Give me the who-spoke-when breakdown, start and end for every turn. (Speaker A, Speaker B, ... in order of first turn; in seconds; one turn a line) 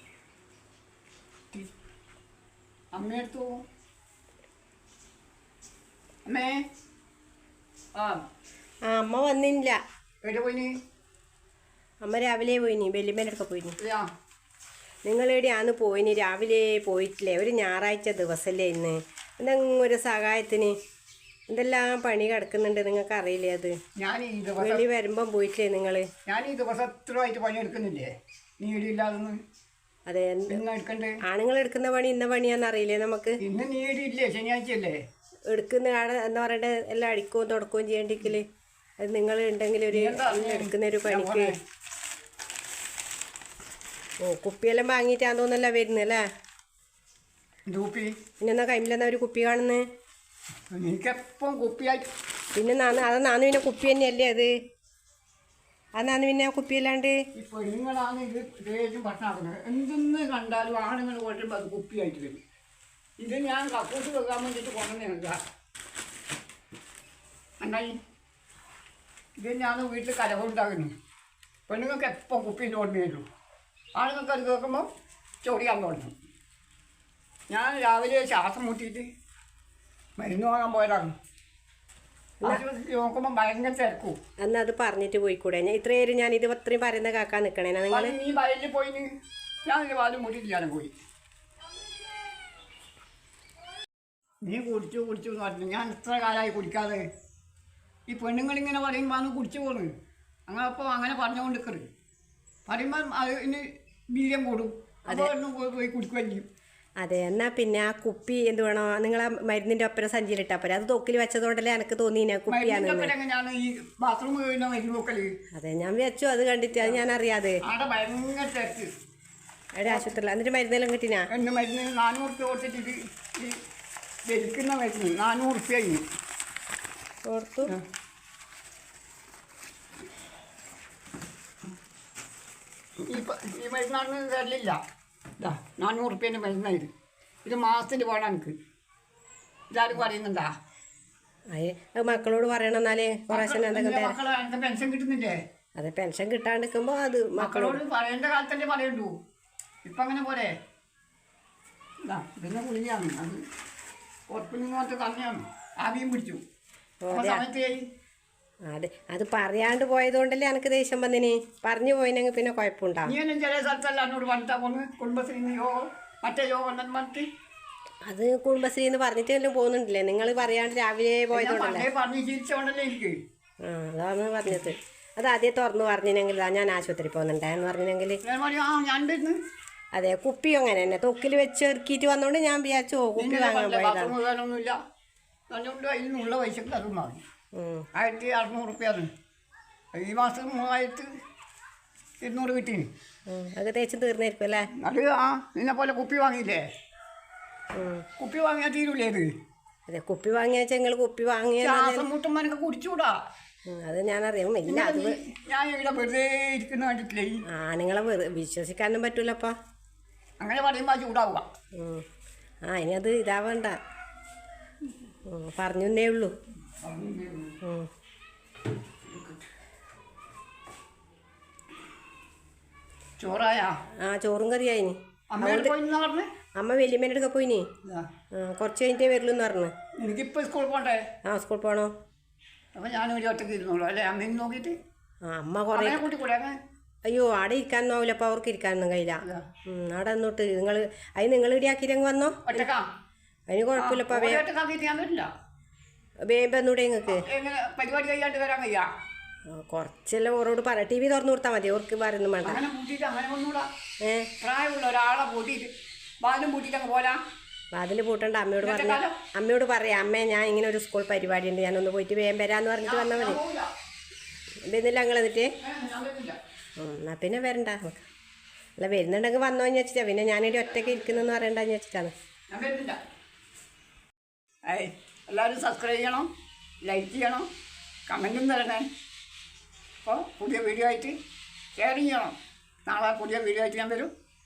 Speaker A: 2.9-3.6
Speaker A: 6.3-6.7
Speaker A: 8.0-8.2
Speaker B: 8.9-9.8
Speaker A: 10.2-10.7
Speaker B: 12.0-13.8
Speaker A: 13.8-14.1
Speaker B: 15.1-20.8
Speaker B: 21.5-23.8
Speaker A: 24.0-24.9
Speaker B: 24.6-26.1
Speaker A: 26.3-29.4
Speaker B: 30.1-30.6
Speaker A: 30.5-31.2
Speaker B: 31.2-33.4
Speaker A: 33.4-35.0
Speaker B: 35.5-38.5
Speaker B: 39.0-41.5
Speaker A: 39.9-41.6
Speaker B: 44.2-46.2
Speaker A: 47.7-48.1
Speaker B: 48.4-49.8
Speaker A: 50.7-52.1
Speaker B: 52.5-54.5
Speaker B: 56.0-57.2
Speaker A: 57.3-62.4
Speaker A: 63.2-65.4
Speaker A: 67.6-68.0
Speaker A: 69.4-70.9
Speaker A: 71.7-73.2
Speaker A: 74.0-74.9
Speaker A: 75.4-76.1
Speaker A: 77.5-79.1
Speaker A: 80.2-81.1
Speaker A: 82.4-84.2
Speaker B: 84.4-88.2
Speaker A: 87.9-89.1
Speaker A: 89.7-90.9
Speaker A: 94.4-97.0
Speaker A: 98.1-99.9
Speaker A: 100.5-101.9
Speaker A: 102.7-106.5
Speaker B: 107.0-113.1
Speaker A: 112.5-115.3
Speaker B: 115.5-117.6
Speaker A: 117.6-118.9
Speaker B: 119.8-121.3
Speaker A: 121.3-123.6
Speaker A: 124.3-126.0
Speaker B: 127.3-127.7
Speaker A: 133.0-134.8
Speaker A: 135.4-136.9
Speaker A: 137.4-138.6
Speaker A: 139.7-140.5
Speaker B: 141.5-144.2
Speaker A: 143.3-145.4
Speaker B: 145.8-147.8
Speaker A: 147.4-149.1
Speaker A: 149.9-150.5
Speaker A: 152.1-153.4
Speaker A: 154.3-156.4
Speaker B: 157.0-157.4
Speaker A: 157.1-157.8
Speaker B: 158.7-163.1
Speaker A: 163.1-167.3
Speaker B: 168.1-171.9
Speaker A: 171.3-173.2
Speaker B: 173.6-178.2
Speaker A: 178.2-179.4
Speaker B: 179.9-184.1
Speaker A: 183.2-184.8
Speaker A: 185.5-187.2
Speaker B: 187.6-187.9
Speaker A: 187.9-189.1
Speaker A: 189.9-191.1
Speaker A: 192.2-192.9
Speaker B: 193.3-194.7
Speaker A: 194.7-196.7
Speaker B: 197.8-198.1
Speaker A: 198.2-199.3
Speaker B: 199.9-202.1
Speaker A: 201.6-203.2
Speaker B: 203.7-205.2
Speaker A: 204.7-207.4
Speaker B: 207.5-209.5
Speaker A: 210.4-211.5
Speaker B: 211.8-212.0
Speaker B: 212.7-213.8
Speaker B: 215.3-216.3
Speaker A: 216.8-217.6
Speaker B: 217.6-217.9
Speaker A: 223.2-223.8
Speaker B: 224.0-225.7
Speaker A: 225.3-226.3
Speaker B: 226.6-227.7
Speaker B: 228.3-229.7
Speaker A: 230.0-231.1
Speaker B: 231.2-231.9
Speaker A: 232.8-234.8
Speaker B: 235.2-236.1
Speaker A: 235.7-236.6
Speaker B: 237.1-242.7
Speaker A: 242.5-242.9
Speaker B: 243.5-244.4
Speaker A: 243.8-245.3
Speaker B: 246.3-247.3
Speaker A: 247.1-248.9
Speaker B: 249.5-252.6
Speaker A: 252.4-253.7
Speaker B: 254.0-254.3
Speaker A: 254.4-257.2
Speaker B: 257.7-263.4
Speaker A: 258.6-259.2
Speaker A: 262.9-263.7
Speaker B: 264.7-265.5
Speaker A: 265.6-266.4
Speaker B: 266.8-268.1
Speaker B: 268.8-272.1
Speaker A: 272.5-273.0
Speaker A: 274.7-276.3
Speaker A: 276.8-277.5
Speaker A: 278.1-278.9
Speaker A: 280.0-281.2
Speaker A: 281.8-282.4
Speaker A: 282.9-284.1